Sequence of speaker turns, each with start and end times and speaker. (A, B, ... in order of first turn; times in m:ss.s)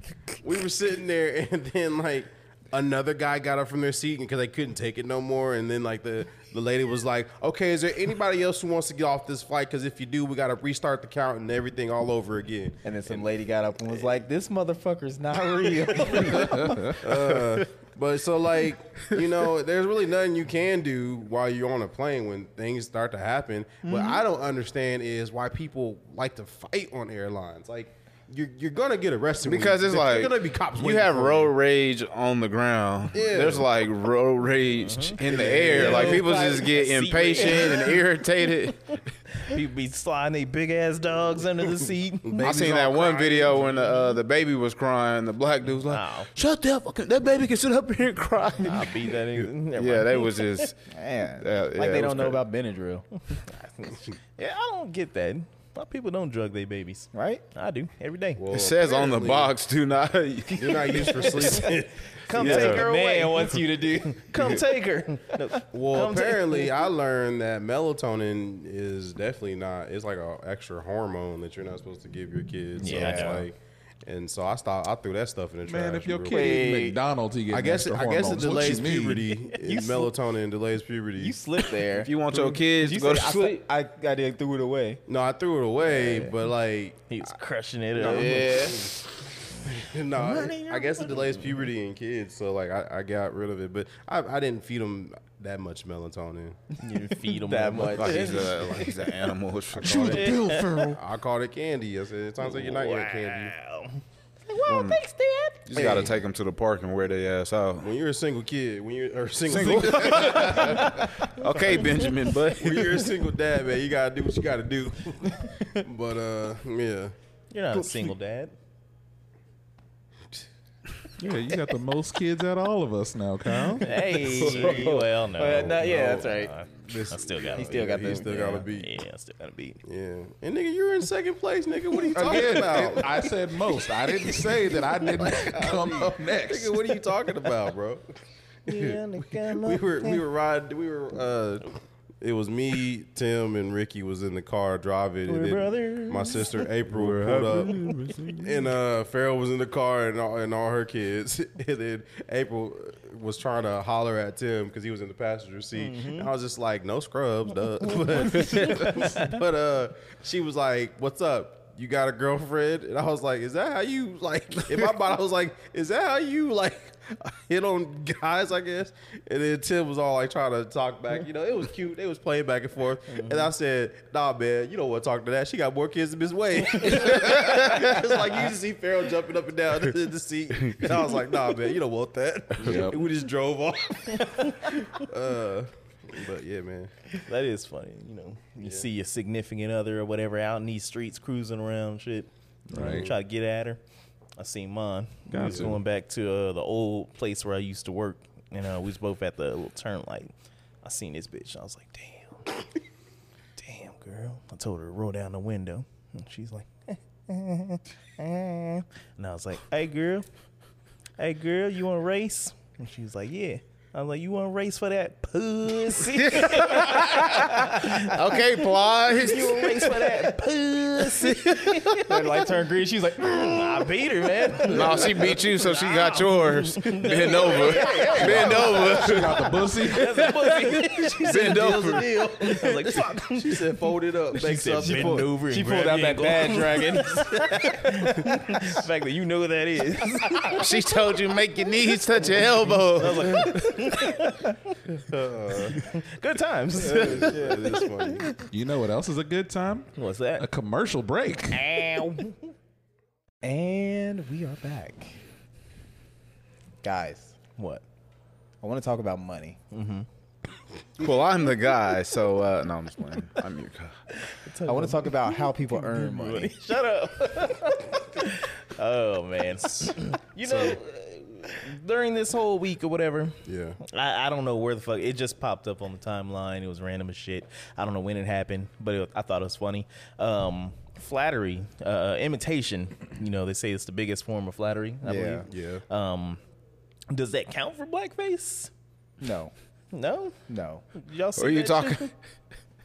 0:00.4-0:13.2 A
0:12.8-0:17.0 B
0:16.9-0:31.6 A
0:29.4-0:39.0 C
0:33.1-0:33.7 A
0:34.8-0:35.2 D
0:35.2-0:36.3 A
0:35.7-0:38.0 D
0:35.7-0:36.6 B
0:39.4-0:42.5 D
0:42.2-0:43.9 A
0:42.4-0:50.8 C
0:45.8-0:46.3 D
0:48.6-0:50.7 D
0:50.9-0:53.0 B
0:51.4-0:52.4 C
0:53.4-0:58.4 D
0:57.1-0:57.4 B
0:58.4-0:59.5 A
0:58.5-1:01.5 C
1:00.5-1:02.0 A
1:02.2-1:06.7 D
1:02.3-1:04.5 B
1:02.4-1:02.8 C
1:05.7-1:16.7 A
1:12.8-1:13.4 D
1:12.8-1:13.5 B
1:15.7-1:19.3 E
1:16.3-1:17.0 B
1:17.5-1:21.4 A
1:19.5-1:20.1 B
1:21.2-1:25.0 B
1:21.9-1:23.6 C
1:25.1-1:27.0 A
1:25.9-1:26.3 B
1:27.1-1:28.6 D
1:28.0-1:36.6 A
1:28.0-1:28.9 B
1:30.2-1:31.4 B
1:36.8-1:38.8 D
1:36.9-1:38.5 B
1:37.9-1:40.4 C
1:39.7-1:43.5 A
1:39.8-1:41.0 E
1:40.1-1:40.9 D
1:42.4-1:44.0 D
1:44.5-1:46.0 B
1:44.6-1:45.0 C
1:45.7-1:47.9 C
1:45.7-1:46.1 A
1:47.8-1:51.1 A
1:49.5-1:53.1 C
1:50.0-1:50.9 D
1:52.5-1:57.1 A
1:57.5-1:58.5 D
2:01.2-2:04.0 E
2:03.8-2:07.8 D
2:04.2-2:06.5 B
2:04.4-2:05.0 C
2:05.8-2:06.3 A
2:06.8-2:08.9 A
2:07.6-2:08.7 B
2:08.7-2:09.8 D
2:09.8-2:13.3 A
2:12.1-2:17.0 E
2:15.2-2:18.0 A
2:18.7-2:20.2 D
2:18.7-3:07.1 A
2:25.3-2:26.6 D
2:26.9-2:28.6 C
2:35.8-2:36.3 D
2:38.1-2:39.3 D
2:57.1-2:57.9 C
3:02.6-3:03.0 E
3:07.2-3:13.8 D
3:08.6-3:08.9 A
3:12.7-3:13.1 E
3:12.8-3:13.1 A
3:14.4-3:20.3 D
3:15.3-3:15.8 E
3:15.4-3:15.8 A
3:20.8-3:22.5 D
3:23.6-3:30.3 D
3:31.2-3:38.4 D
3:36.2-3:40.1 C
3:39.1-3:42.1 D
3:41.0-3:42.0 C
3:42.0-3:44.9 B
3:43.2-3:49.0 D
3:44.7-3:52.1 C
3:47.5-3:49.1 A
3:47.7-3:48.5 B
3:48.2-3:50.1 E
3:49.8-3:51.7 D
3:50.9-3:55.3 A
3:52.4-3:53.7 D
3:54.3-4:00.6 D
3:54.8-3:58.8 B
4:00.5-4:03.6 C
4:02.9-4:05.0 D
4:05.0-4:05.8 A
4:05.6-4:08.4 D
4:06.8-4:08.4 A
4:06.8-4:07.8 B
4:08.5-4:11.7 E
4:09.9-4:10.5 D
4:11.5-4:12.3 B
4:11.8-4:12.2 D
4:13.4-4:15.2 B
4:16.8-4:17.4 B
4:17.6-4:17.8 D
4:18.6-4:19.6 B
4:19.7-4:20.1 D
4:21.0-4:24.0 C
4:24.2-4:46.4 D
4:24.7-4:26.6 B
4:30.4-4:30.8 A
4:33.4-4:33.8 A
4:45.0-4:45.5 B
4:45.5-4:45.8 A
4:47.1-4:48.7 D
4:49.2-4:49.5 B
4:49.9-4:50.4 D
4:50.5-4:50.8 B
4:50.9-4:52.1 D
4:51.4-4:52.1 C